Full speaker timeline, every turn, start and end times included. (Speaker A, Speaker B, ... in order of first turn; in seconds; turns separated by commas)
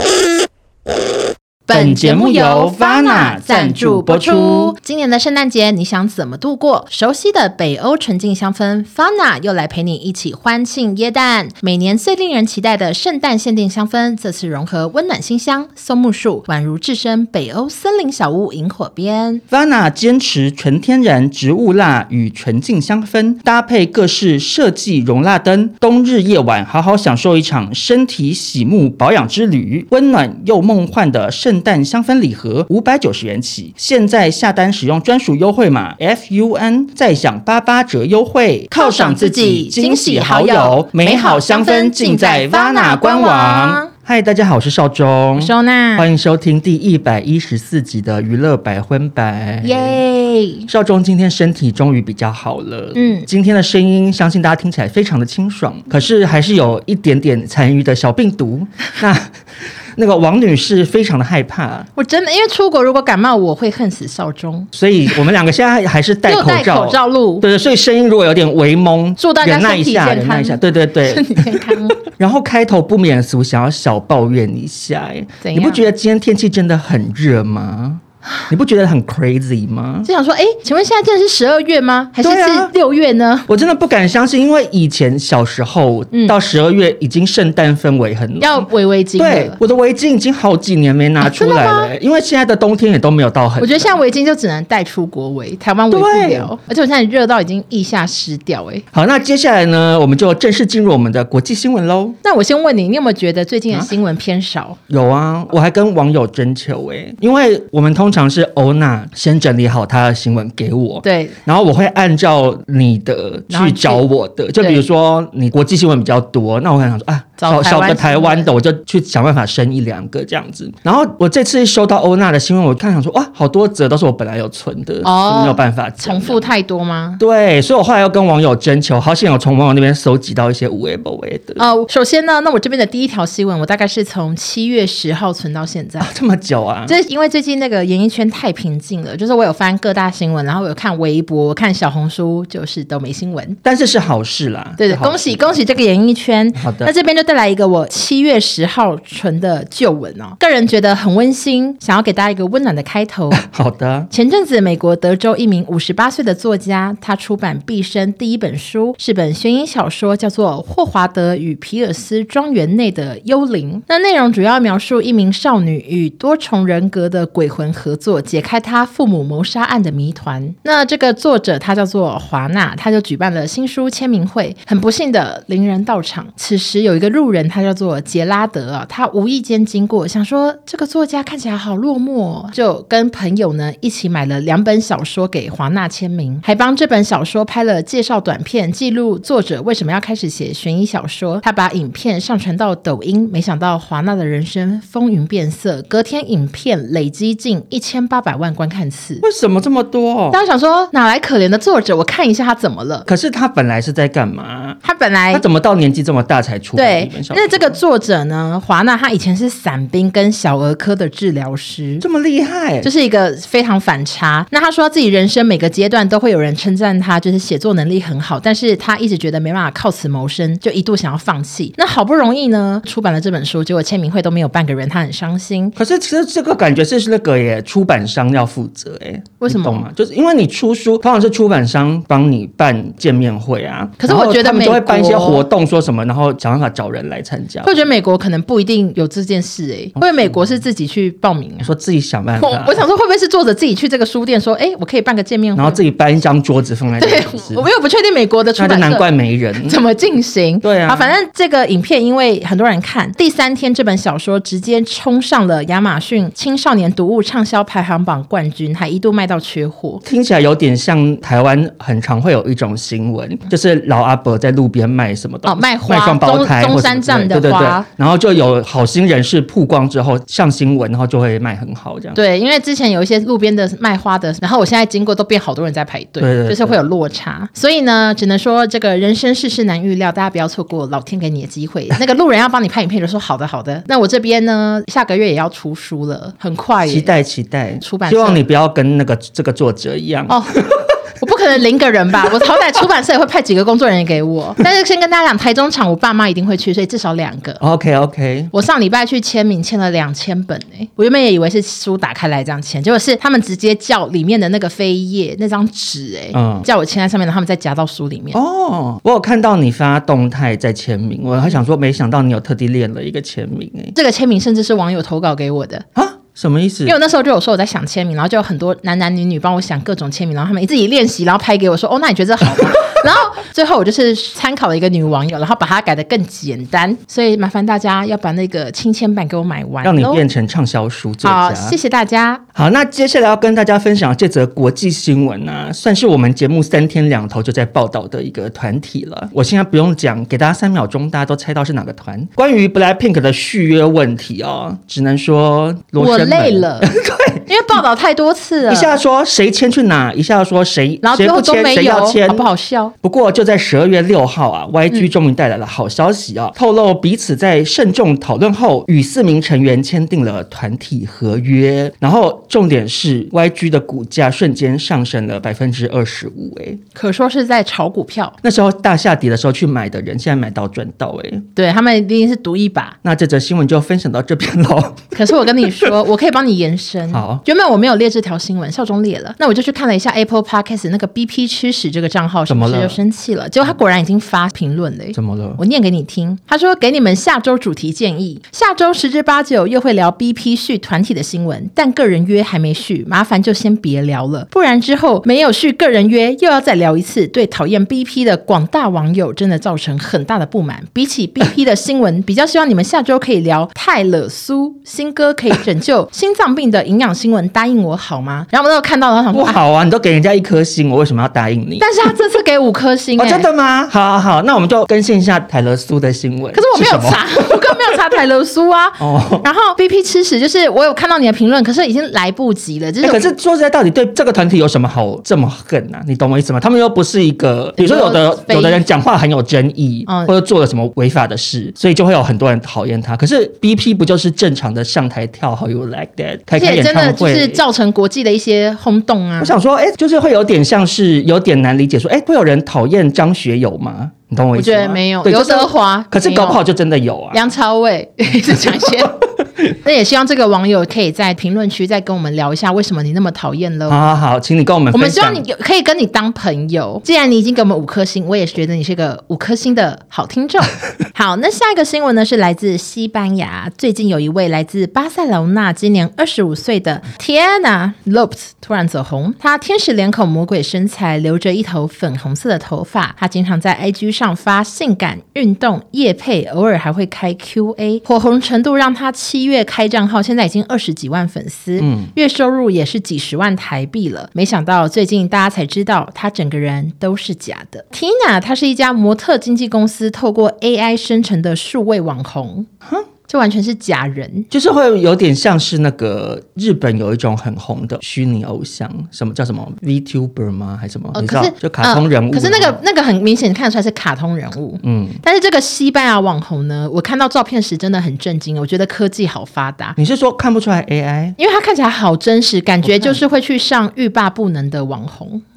Speaker A: 1.7-19.4, Speaker B: 1.7-4.7, Speaker B: 19.5-50.0, Speaker A: 38.7-43.9, Speaker A: 45.4-46.1, Speaker A: 49.6-50.7, Speaker B: 50.7-59.3, Speaker A: 52.9-53.2, Speaker B: 60.0-61.9, Speaker A: 61.9-64.7, Speaker B: 64.7-80.1, Speaker A: 66.3-67.4, Speaker A: 69.2-72.0, Speaker A: 75.4-75.8, Speaker A: 80.0-83.5, Speaker B: 82.2-82.7, Speaker B: 83.5-94.0, Speaker A: 88.4-89.6, Speaker A: 91.2-91.9, Speaker A: 93.6-98.8, Speaker B: 95.9-96.5, Speaker B: 98.9-102.2, Speaker A: 102.2-104.8, Speaker B: 104.9-126.5, Speaker A: 111.0-111.4, Speaker A: 113.5-114.0, Speaker A: 114.6-114.8, Speaker A: 117.4-118.5, Speaker A: 125.0-127.2, Speaker B: 127.2-131.6, Speaker A: 131.6-136.1, Speaker B: 136.0-137.0, Speaker A: 136.8-143.6, Speaker B: 143.6-145.6, Speaker A: 144.8-153.4, Speaker B: 146.5-146.9, Speaker B: 153.3-154.1, Speaker A: 154.1-199.2, Speaker B: 199.2-200.4, Speaker A: 200.3-203.1, Speaker B: 203.1-204.8, Speaker A: 204.8-205.4, Speaker B: 205.3-207.8, Speaker A: 206.8-212.0, Speaker B: 212.0-212.9, Speaker A: 212.8-225.7, Speaker B: 225.8-237.8, Speaker A: 229.4-229.8, Speaker A: 234.0-235.4, Speaker A: 237.6-241.7, Speaker B: 240.0-240.5, Speaker B: 241.6-242.8, Speaker A: 242.3-245.8, Speaker B: 245.5-247.7, Speaker A: 247.0-260.0, Speaker B: 248.6-249.8, Speaker B: 250.6-251.2, Speaker B: 260.0-272.2, Speaker A: 265.4-267.9, Speaker A: 272.1-287.1, Speaker B: 276.2-276.8, Speaker B: 286.8-290.9, Speaker A: 287.8-288.4, Speaker A: 290.3-297.6, Speaker B: 297.6-298.5, Speaker A: 298.5-308.4, Speaker B: 306.3-306.6, Speaker B: 308.3-313.9, Speaker A: 313.9-315.9, Speaker B: 315.9-317.0, Speaker A: 316.9-330.2, Speaker B: 322.5-323.0, Speaker B: 329.8-331.8, Speaker A: 331.2-332.4, Speaker B: 332.5-347.4, Speaker A: 346.0-346.9, Speaker A: 347.5-349.0, Speaker B: 348.7-352.5, Speaker A: 351.0-352.9, Speaker B: 353.0-366.8, Speaker A: 366.9-368.3, Speaker B: 368.4-371.4, Speaker A: 371.6-373.0, Speaker B: 373.0-375.9, Speaker A: 375.1-409.6, Speaker B: 377.1-377.4, Speaker B: 382.5-383.0, Speaker B: 385.1-385.6, Speaker B: 409.3-412.1, Speaker A: 411.8-413.5, Speaker B: 413.2-418.0, Speaker A: 416.5-423.3, Speaker B: 419.0-419.4, Speaker B: 423.0-437.6, Speaker A: 427.8-428.8, Speaker A: 430.1-430.3, Speaker A: 436.6-439.6, Speaker B: 439.4-447.4, Speaker A: 444.6-446.6, Speaker A: 447.3-454.1, Speaker B: 448.5-449.1, Speaker B: 453.9-455.4, Speaker A: 454.9-492.7, Speaker B: 481.8-482.1, Speaker A: 493.3-494.5, Speaker B: 494.5-502.8, Speaker A: 501.1-510.0, Speaker B: 504.8-505.2, Speaker B: 510.0-511.4, Speaker A: 511.4-515.4, Speaker B: 512.8-513.2